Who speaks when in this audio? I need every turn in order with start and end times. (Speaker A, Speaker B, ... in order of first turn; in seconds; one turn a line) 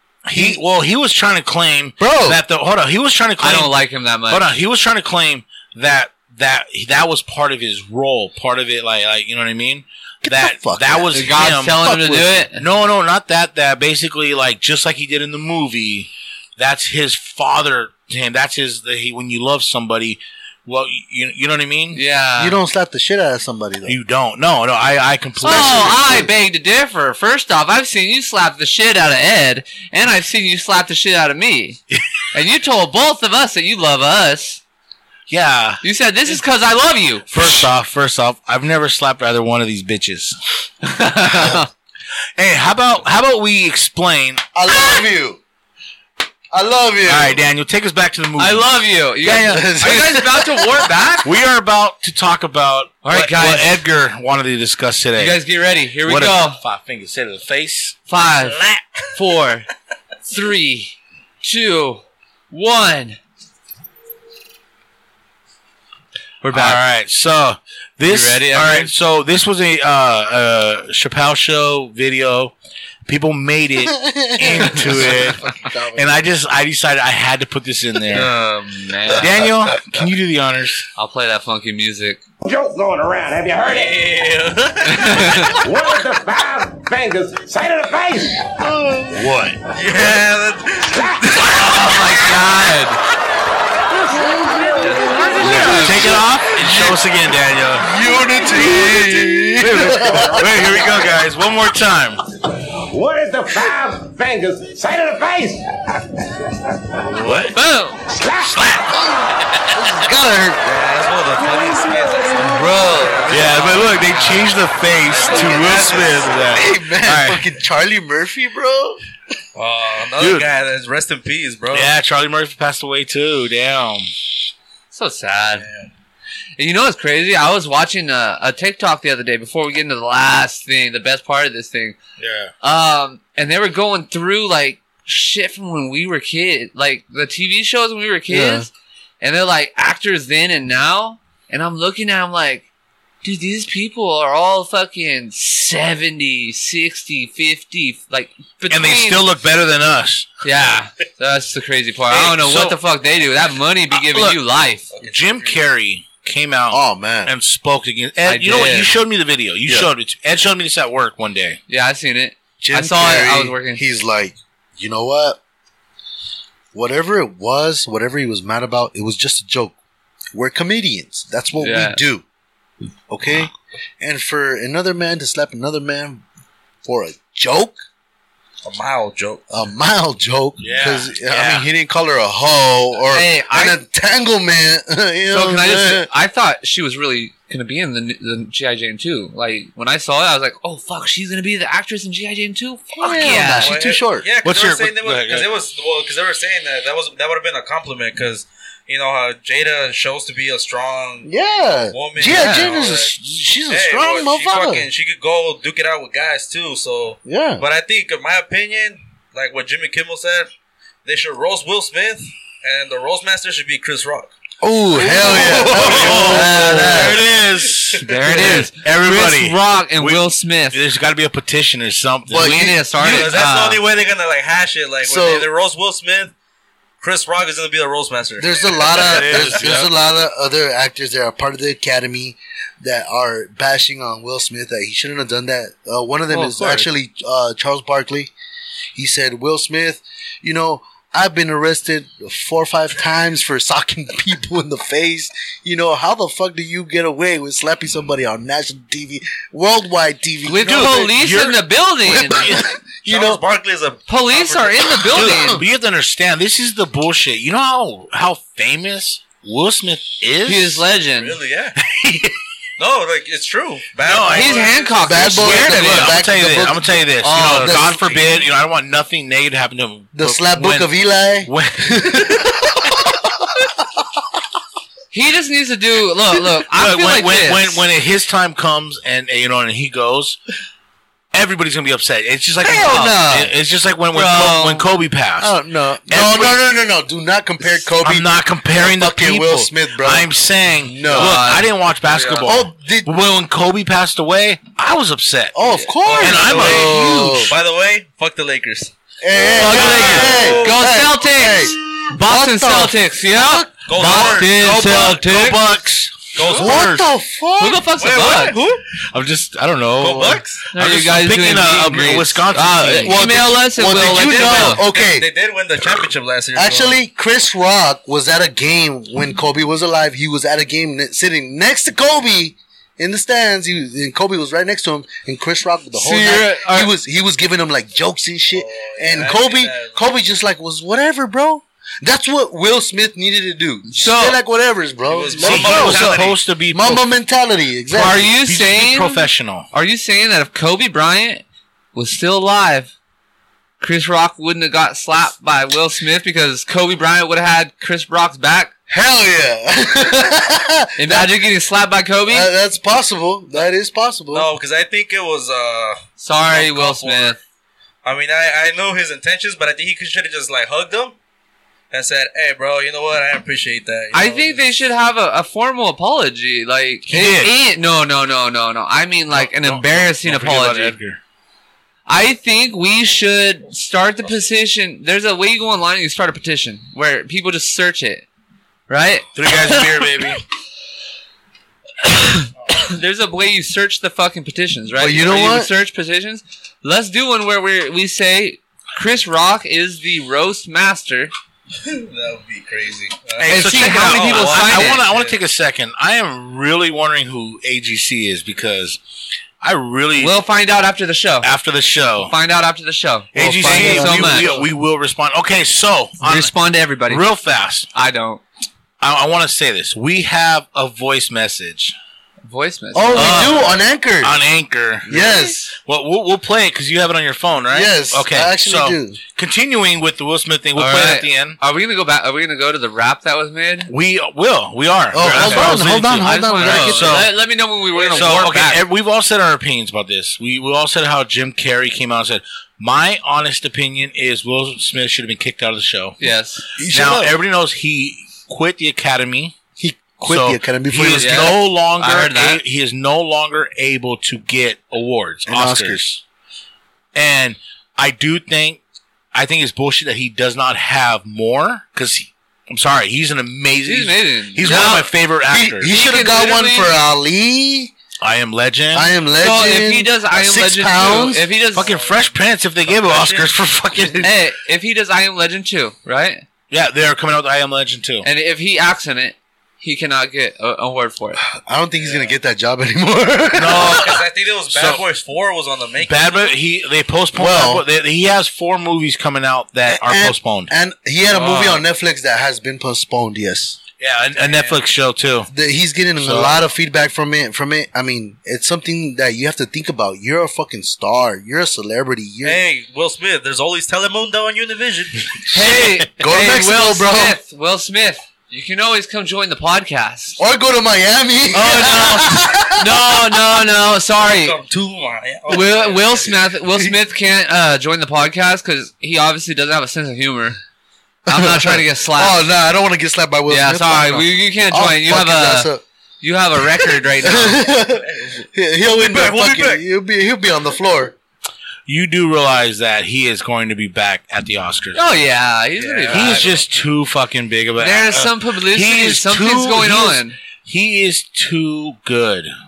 Speaker A: 0.2-3.8
Speaker B: 0.3-0.6
Speaker B: 2.0-2.4
Speaker C: 3.4-4.5
Speaker A: 4.3-22.0
Speaker B: 10.2-11.3
Speaker C: 11.1-12.6
Speaker C: 21.9-22.6
Speaker B: 22.4-24.0
Speaker A: 23.9-26.3
Speaker C: 25.4-31.8
Speaker C: 32.3-34.6
Speaker A: 35.3-36.4
Speaker C: 35.8-37.6
Speaker A: 37.3-40.4
Speaker C: 40.9-41.7
Speaker A: 41.3-41.6
Speaker A: 42.4-44.4
Speaker B: 44.5-45.4
Speaker B: 46.5-47.4
Speaker A: 47.1-48.7
Speaker C: 48.4-51.3
Speaker A: 49.2-49.6
Speaker B: 49.3-50.8
Speaker A: 51.2-55.4
Speaker C: 53.0-53.8
Speaker C: 55.2-56.6
Speaker A: 56.0-58.0
Speaker C: 58.1-58.6
Speaker D: 58.4-59.0
Speaker C: 59.1-59.7
Speaker C: 60.2-63.2
Speaker C: 66.4-66.8
Speaker A: 66.5-72.5
Speaker C: 68.1-68.9
Speaker A: 73.1-78.3
Speaker B: 73.8-76.1
Speaker C: 78.1-79.4
Speaker A: 79.1-80.9
Speaker C: 81.0-82.2
Speaker E: 82.4-84.1
Speaker D: 83.7-85.6
Speaker C: 84.8-85.6
Speaker E: 85.6-88.5
Speaker B: 88.7-89.1
Speaker A: 89.1-89.6
Speaker D: 89.7-92.1
Speaker A: 91.4-92.4
Speaker C: 91.4-93.0
Speaker E: 94.2-95.5
Speaker C: 94.8-96.2
Speaker A: 95.4-97.9
Speaker B: 95.6-97.0
Speaker B: 97.8-100.6
Speaker A: 98.5-102.2
Speaker E: 100.4-101.1
Speaker E: 102.9-105.6
Speaker E: 106.2-106.6
Speaker A: 107.1-107.6
Speaker C: 107.5-108.0
Speaker E: 108.1-108.7
Speaker A: 108.4-109.8
Speaker B: 108.8-110.6
Speaker D: 110.6-114.5
Speaker B: 112.4-113.4
Speaker A: 113.3-117.4
Speaker C: 113.5-114.3
Speaker D: 115.0-116.6
Speaker B: 115.6-119.0
Speaker D: 119.5-121.9
Speaker A: 120.2-120.5
Speaker A: 121.7-124.1
Speaker C: 124.9-125.7
Speaker D: 125.6-125.9
Speaker C: 126.6-132.0
Speaker A: 132.2-132.5
Speaker C: 132.6-138.7
Speaker B: 138.3-138.7
Speaker C: 139.2-142.7
Speaker C: 143.2-149.2
Speaker A: 148.7-150.3
Speaker C: 150.4-154.9
Speaker A: 152.1-152.8
Speaker A: 153.9-154.4
Speaker D: 154.9-155.6
Speaker A: 155.1-161.6
Speaker B: 156.7-157.3
Speaker C: 158.3-158.9
Speaker B: 159.7-159.9
Speaker C: 161.7-163.8
Speaker B: 162.6-165.4
Speaker B: 166.7-169.8
Speaker B: 170.3-172.2
Speaker C: 171.6-172.0
Speaker B: 173.1-176.2
Speaker B: 176.8-177.8
Speaker D: 178.6-179.4
Speaker B: 179.5-186.1
Speaker A: 180.6-181.6
Speaker C: 183.1-183.8
Speaker C: 185.3-193.8
Speaker B: 193.0-194.3
Speaker D: 193.6-203.2
Speaker A: 194.4-195.5
Speaker B: 201.2-204.9
Speaker C: 202.3-202.7
Speaker D: 203.7-210.5
Speaker B: 207.2-207.6
Speaker D: 211.1-214.3
Speaker B: 214.6-217.2
Speaker C: 215.1-217.1
Speaker A: 215.1-223.3
Speaker D: 215.6-218.0
Speaker C: 218.1-220.8
Speaker B: 222.3-222.8
Speaker C: 222.3-223.8
Speaker D: 223.0-226.3
Speaker B: 225.0-225.5
Speaker D: 227.0-229.7
Speaker B: 228.4-238.3
Speaker A: 229.0-229.9
Speaker C: 236.3-236.9
Speaker B: 238.9-251.1
Speaker C: 250.4-252.5
Speaker A: 250.6-252.7
Speaker B: 252.1-253.4
Speaker D: 253.1-254.9
Speaker C: 254.1-255.6
Speaker A: 255.1-260.9
Speaker B: 255.1-255.6
Speaker C: 260.4-261.4
Speaker D: 261.2-261.8
Speaker A: 261.8-262.4
Speaker D: 262.8-265.0
Speaker A: 264.1-270.9
Speaker C: 264.3-266.2
Speaker B: 265.1-268.1
Speaker C: 267.2-268.2
Speaker B: 270.1-273.4
Speaker A: 271.4-272.7
Speaker C: 275.1-277.8
Speaker A: 276.7-280.4
Speaker A: 281.3-285.5
Speaker B: 282.6-283.5
Speaker C: 284.1-284.9
Speaker B: 285.4-290.3
Speaker A: 286.1-286.6
Speaker A: 288.0-295.6
Speaker B: 290.8-291.4
Speaker C: 291.1-292.5
Speaker B: 292.4-293.1
Speaker B: 295.5-297.5
Speaker D: 296.0-300.9
Speaker A: 296.1-297.5
Speaker B: 299.2-303.7
Speaker A: 299.6-300.4
Speaker C: 299.6-305.6
Speaker D: 303.9-304.8
Speaker A: 304.0-307.1
Speaker D: 306.4-306.9
Speaker B: 306.4-307.8
Speaker C: 307.6-308.6
Speaker D: 308.0-308.8
Speaker A: 309.1-313.3
Speaker D: 310.0-310.6
Speaker C: 310.7-314.8
Speaker B: 313.0-315.3
Speaker D: 314.3-316.9
Speaker B: 316.6-338.3
Speaker C: 325.9-326.9
Speaker D: 328.5-330.0
Speaker C: 333.9-334.4
Speaker D: 335.1-336.4
Speaker A: 335.4-337.1
Speaker C: 337.9-341.4
Speaker A: 338.1-339.7
Speaker C: 341.9-342.9
Speaker C: 343.8-348.7
Speaker B: 348.9-351.3
Speaker C: 351.0-352.5
Speaker B: 352.3-354.5
Speaker D: 354.3-357.4
Speaker C: 356.2-357.4
Speaker D: 358.0-361.2
Speaker D: 361.9-364.6
Speaker C: 364.1-371.0
Speaker A: 367.1-367.5
Speaker A: 369.3-371.2
Speaker C: 372.1-378.2
Speaker C: 378.9-379.8
Speaker A: 379.4-380.4
Speaker C: 382.0-391.3
Speaker B: 385.0-385.7
Speaker D: 391.8-395.4
Speaker A: 393.4-399.0
Speaker C: 393.5-395.0
Speaker A: 399.6-400.4
Speaker C: 400.2-401.5
Speaker A: 401.4-402.3
Speaker C: 402.2-404.6
Speaker A: 403.3-406.5
Speaker B: 403.5-404.6
Speaker C: 406.2-407.2
Speaker A: 407.1-407.9
Speaker C: 407.9-408.4
Speaker A: 409.0-411.9
Speaker C: 412.5-413.7
Speaker B: 412.9-414.4
Speaker A: 413.1-413.6
Speaker A: 414.2-421.6
Speaker B: 415.1-415.7
Speaker C: 415.1-415.6
Speaker B: 417.7-419.2
Speaker C: 420.8-423.9
Speaker A: 423.9-427.4
Speaker B: 425.1-427.3
Speaker C: 425.3-428.8
Speaker D: 427.9-428.5
Speaker A: 428.1-436.2
Speaker C: 436.2-436.6
Speaker B: 436.8-437.4
Speaker A: 436.9-439.6
Speaker B: 439.8-441.6
Speaker A: 440.2-446.2
Speaker C: 441.2-442.6
Speaker B: 445.5-446.2
Speaker A: 447.1-448.8
Speaker A: 449.3-455.9
Speaker C: 453.8-455.1
Speaker B: 454.6-457.9
Speaker C: 455.9-456.9
Speaker A: 458.2-459.1
Speaker B: 458.9-461.5
Speaker C: 459.4-461.9
Speaker D: 461.7-463.6
Speaker A: 461.8-464.4
Speaker C: 464.2-466.4
Speaker A: 466.7-468.3
Speaker C: 468.2-471.4
Speaker B: 471.5-474.2
Speaker D: 472.0-472.3
Speaker A: 473.6-475.0
Speaker D: 473.7-476.5
Speaker A: 476.0-480.7
Speaker B: 477.3-477.8
Speaker B: 479.9-483.8
Speaker A: 484.0-485.5
Speaker D: 484.3-484.8
Speaker B: 485.5-492.6
Speaker A: 486.2-486.6
Speaker D: 492.4-495.3
Speaker C: 495.5-500.4
Speaker A: 495.6-495.9
Speaker B: 496.1-497.4
Speaker B: 500.4-503.2
Speaker C: 501.5-504.6
Speaker D: 504.2-506.3
Speaker C: 505.5-510.6
Speaker B: 511.3-515.8
Speaker C: 511.3-512.4
Speaker C: 513.5-515.7
Speaker C: 516.2-517.7
Speaker B: 516.9-521.1
Speaker D: 517.9-519.8
Speaker A: 521.9-525.0
Speaker C: 525.0-526.5
Speaker D: 525.8-526.7
Speaker A: 526.1-532.5
Speaker C: 527.8-530.4